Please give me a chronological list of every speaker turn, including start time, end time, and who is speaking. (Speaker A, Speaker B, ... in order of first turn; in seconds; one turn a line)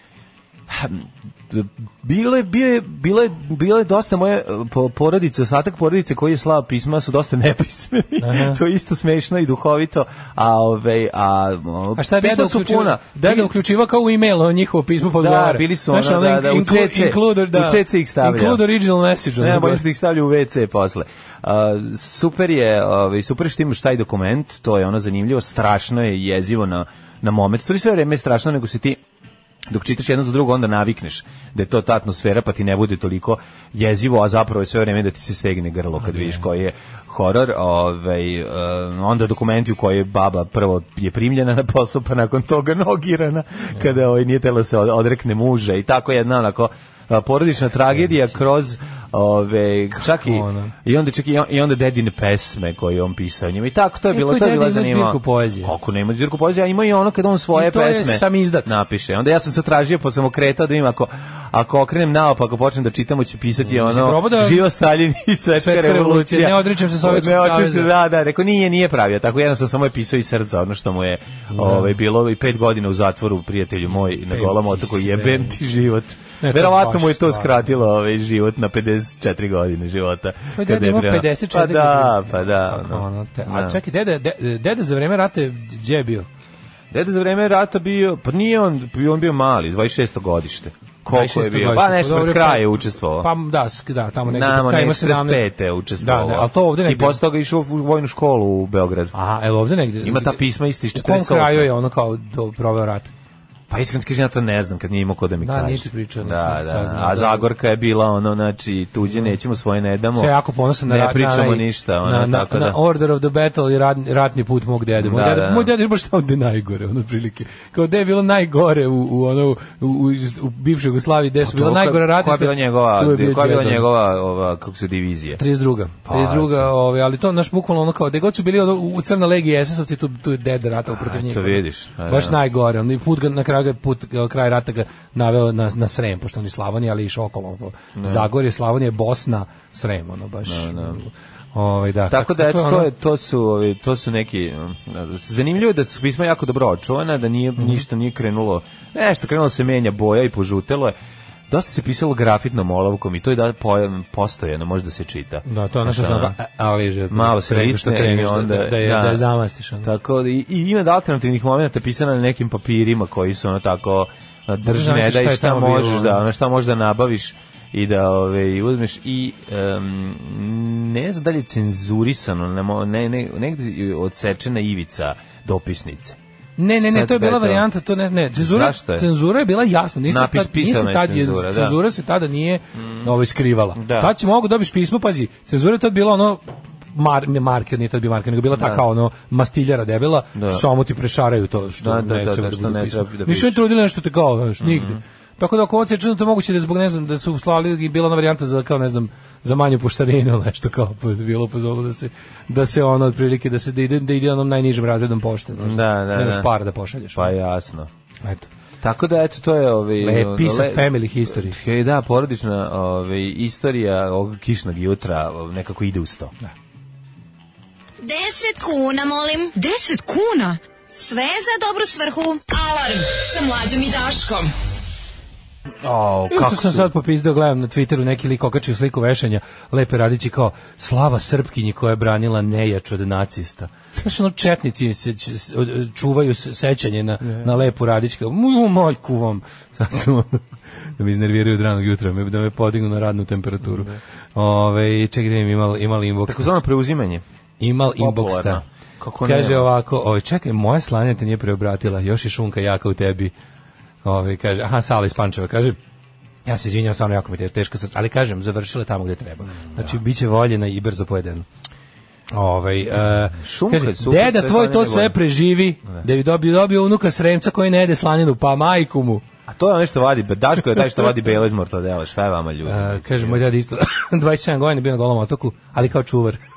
Speaker A: 0.7-13.5
Speaker B: 8.2-8.6
Speaker B: 12.0-19.8
Speaker A: 15.2-18.6
Speaker A: 19.4-29.0
Speaker A: 29.7-83.8
Speaker B: 36.1-36.4
Speaker B: 48.0-48.2
Speaker B: 50.0-50.7
Speaker B: 54.1-55.7
Speaker B: 57.5-58.7
Speaker B: 63.6-64.7
Speaker B: 65.5-67.9
Speaker B: 71.5-71.9
Speaker B: 74.3-75.6
Speaker B: 76.4-77.5
Speaker B: 80.5-86.3
Speaker A: 86.9-93.3
Speaker B: 91.1-95.4
Speaker A: 94.2-99.2
Speaker B: 96.0-97.2
Speaker B: 99.1-100.4
Speaker A: 100.0-101.7
Speaker B: 100.9-103.1
Speaker A: 103.7-112.8
Speaker B: 105.4-107.5
Speaker B: 110.2-123.9
Speaker A: 115.0-115.7
Speaker A: 121.4-125.4
Speaker B: 125.4-142.9
Speaker A: 126.0-126.7
Speaker A: 130.9-132.4
Speaker A: 138.0-138.3
Speaker A: 140.5-141.0
Speaker A: 142.1-150.9
Speaker A: 151.5-156.3
Speaker B: 155.5-159.9
Speaker A: 157.1-159.2
Speaker A: 159.8-176.2
Speaker B: 164.6-166.2
Speaker B: 176.6-186.4
Speaker A: 176.8-177.7
Speaker A: 178.3-179.1
Speaker A: 180.1-181.8
Speaker A: 183.8-184.1
Speaker B: 186.9-207.3
Speaker A: 188.5-188.8
Speaker A: 190.3-190.6
Speaker A: 191.8-193.6
Speaker A: 194.6-195.0
Speaker A: 205.6-206.5
Speaker A: 207.1-207.9
Speaker A: 208.8-216.3
Speaker B: 210.0-211.6
Speaker C: 218.0-224.5
Speaker A: 225.8-226.9
Speaker B: 226.3-240.4
Speaker B: 241.0-246.5
Speaker A: 243.6-244.0
Speaker A: 246.3-247.2
Speaker B: 247.6-248.6
Speaker A: 248.0-249.7
Speaker B: 249.2-253.3
Speaker B: 254.1-255.8
Speaker B: 256.5-261.5
Speaker A: 259.6-259.9
Speaker B: 262.3-269.2
Speaker A: 263.4-265.2
Speaker A: 269.5-273.4
Speaker B: 272.7-276.4